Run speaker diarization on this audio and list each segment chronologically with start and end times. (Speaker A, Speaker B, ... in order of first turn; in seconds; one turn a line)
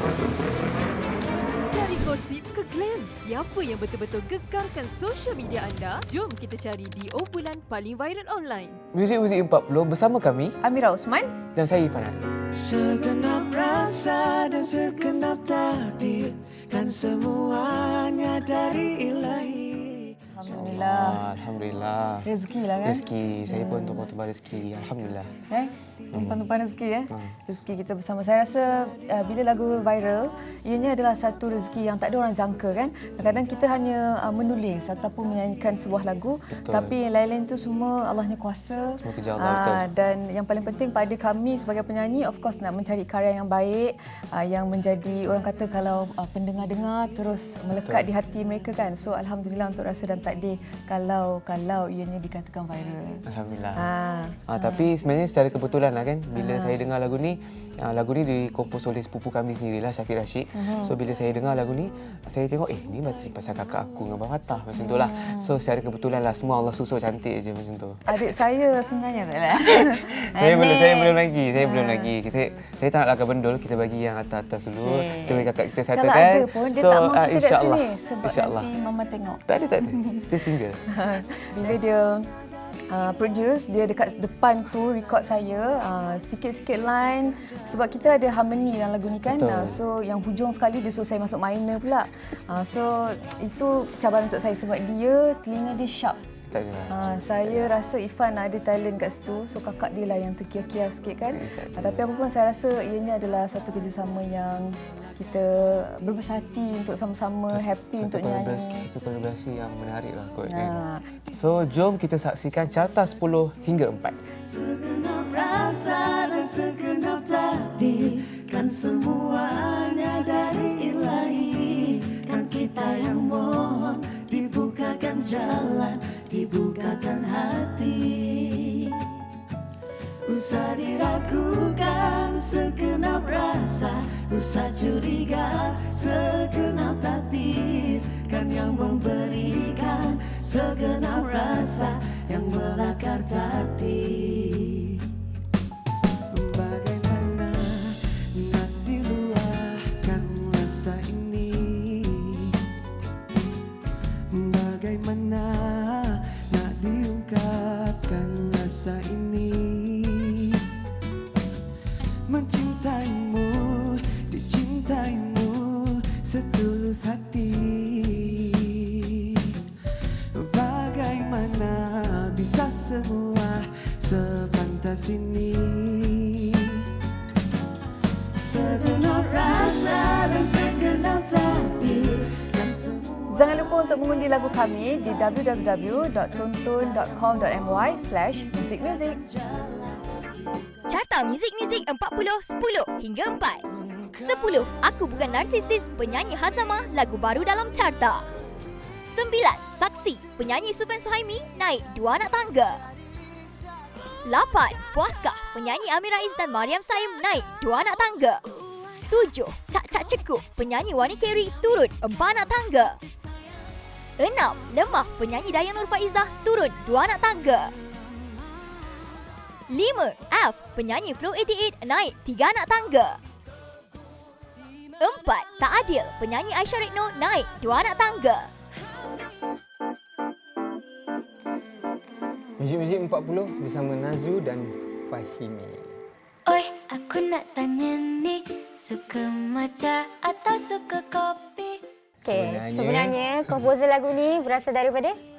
Speaker A: 1.7-8.8
Speaker B: 8.9-10.6
Speaker C: 10.6-11.4
Speaker B: 11.5-12.3
Speaker D: 12.5-20.1
Speaker C: 20.3-21.3
Speaker B: 20.6-22.3
Speaker C: 22.2-24.1
Speaker B: 22.8-25.4
Speaker C: 25.5-54.9
Speaker B: 26.1-26.4
Speaker B: 36.6-37.0
Speaker B: 39.0-39.8
Speaker B: 53.3-53.8
Speaker B: 54.5-68.0
Speaker C: 56.3-56.9
Speaker C: 60.6-61.0
Speaker C: 64.8-65.5
Speaker C: 68.1-72.2
Speaker B: 70.4-78.7
Speaker C: 74.8-82.3
Speaker B: 79.5-80.8
Speaker C: 82.9-96.2
Speaker B: 89.3-89.8
Speaker B: 96.5-97.6
Speaker C: 96.9-108.9
Speaker B: 101.3-102.0
Speaker B: 107.5-110.8
Speaker C: 110.5-111.1
Speaker B: 111.3-114.2
Speaker D: 114.4-129.1
Speaker D: 130.2-145.0
Speaker D: 146.3-152.5
Speaker D: 154.3-160.6
Speaker D: 162.3-169.6
Speaker D: 170.3-176.8
Speaker D: 178.3-183.1
Speaker C: 183.3-189.2
Speaker E: 190.9-193.7
Speaker E: 194.2-198.2
Speaker E: 199.1-202.8
Speaker E: 204.2-208.4
Speaker E: 209.1-213.0
Speaker E: 214.2-217.7
Speaker E: 219.7-223.2
Speaker E: 225.0-228.5
Speaker F: 232.6-235.8
Speaker G: 236.5-241.8
Speaker F: 242.2-243.6
Speaker H: 242.2-245.2